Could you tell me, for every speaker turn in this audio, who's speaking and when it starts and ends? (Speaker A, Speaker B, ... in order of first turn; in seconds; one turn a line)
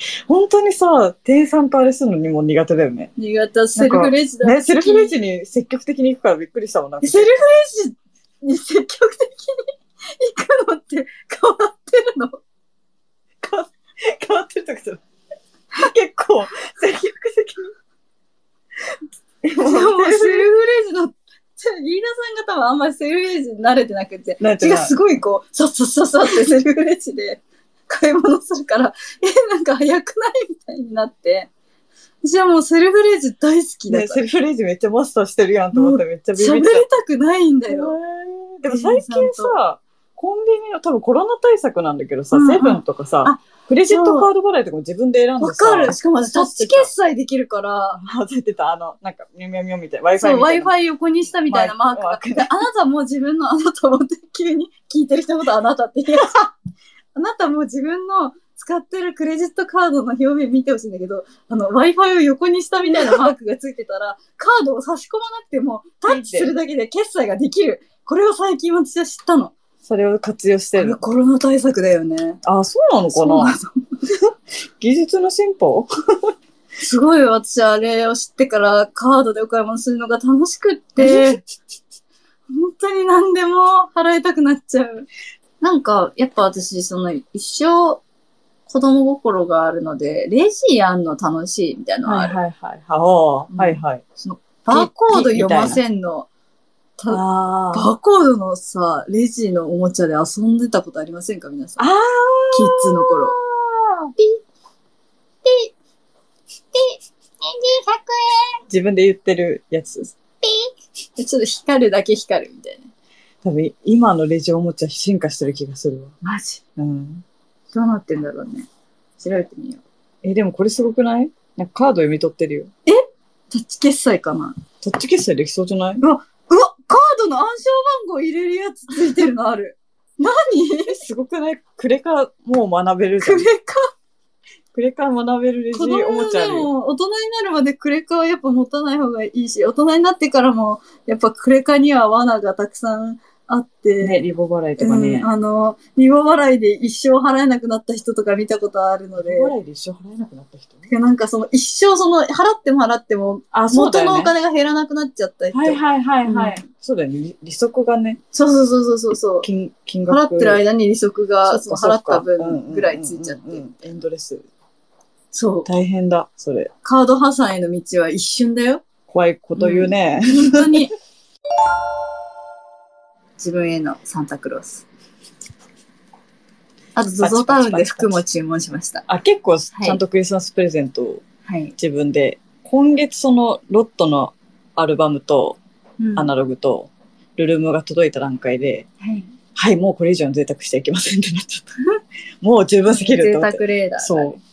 Speaker A: 0.3-3.1
Speaker B: 3.2-5.2
Speaker A: 3.8-7.4
Speaker B: 7.0-12.4
Speaker A: 13.4-15.0
Speaker A: 15.8-17.7
Speaker A: 19.4-20.5
Speaker B: 19.6-31.5
Speaker A: 24.4-25.0
Speaker B: 32.2-34.2
Speaker A: 33.9-36.9
Speaker B: 35.7-38.0
Speaker A: 37.7-46.9
Speaker B: 38.7-39.5
Speaker B: 42.3-44.3
Speaker B: 45.4-48.0
Speaker A: 47.9-50.7
Speaker B: 50.2-56.5
Speaker A: 51.5-52.5
Speaker B: 57.1-69.5
Speaker A: 66.0-66.5
Speaker A: 69.8-71.0
Speaker B: 70.8-72.4
Speaker A: 72.4-73.6
Speaker B: 73.1-73.7
Speaker A: 74.8-76.3
Speaker B: 76.8-81.4
Speaker A: 81.0-81.4
Speaker B: 82.5-85.1
Speaker B: 85.6-88.0
Speaker B: 88.7-92.4
Speaker A: 92.0-94.0
Speaker B: 93.5-96.3
Speaker A: 94.7-95.8
Speaker B: 97.0-101.9
Speaker A: 97.1-97.9
Speaker A: 101.8-104.1
Speaker B: 102.5-103.4
Speaker B: 104.2-104.4
Speaker B: 105.4-105.7
Speaker B: 106.7-108.6
Speaker A: 108.7-110.2
Speaker B: 110.4-112.9
Speaker A: 113.4-116.2
Speaker B: 116.2-116.6
Speaker A: 116.8-117.2
Speaker B: 117.7-118.7
Speaker B: 119.2-119.8
Speaker A: 120.2-122.7
Speaker B: 122.9-124.6
Speaker A: 124.8-126.0
Speaker B: 126.0-131.0
Speaker A: 130.9-133.5
Speaker B: 133.2-133.9
Speaker A: 134.7-136.7
Speaker B: 135.7-144.2
Speaker A: 144.0-145.3
Speaker B: 144.8-149.5
Speaker A: 149.2-150.9
Speaker B: 150.9-156.6
Speaker A: 153.5-154.3
Speaker A: 155.5-158.2
Speaker B: 158.3-159.5
Speaker A: 159.4-160.6
Speaker B: 160.1-163.7
Speaker A: 161.5-164.5
Speaker B: 165.3-165.7
Speaker A: 165.7-166.7
Speaker B: 166.8-168.8
Speaker A: 169.1-170.9
Speaker B: 169.6-170.9
Speaker B: 173.4-174.8
Speaker B: 177.0-179.1
Speaker A: 177.2-178.2
Speaker A: 179.1-181.2
Speaker B: 179.7-180.0
Speaker B: 181.5-181.8
Speaker A: 181.8-185.6
Speaker B: 186.0-186.3
Speaker A: 186.2-188.9
Speaker B: 189.0-189.3
Speaker A: 189.6-191.7
Speaker A: 192.4-194.4
Speaker B: 192.9-194.4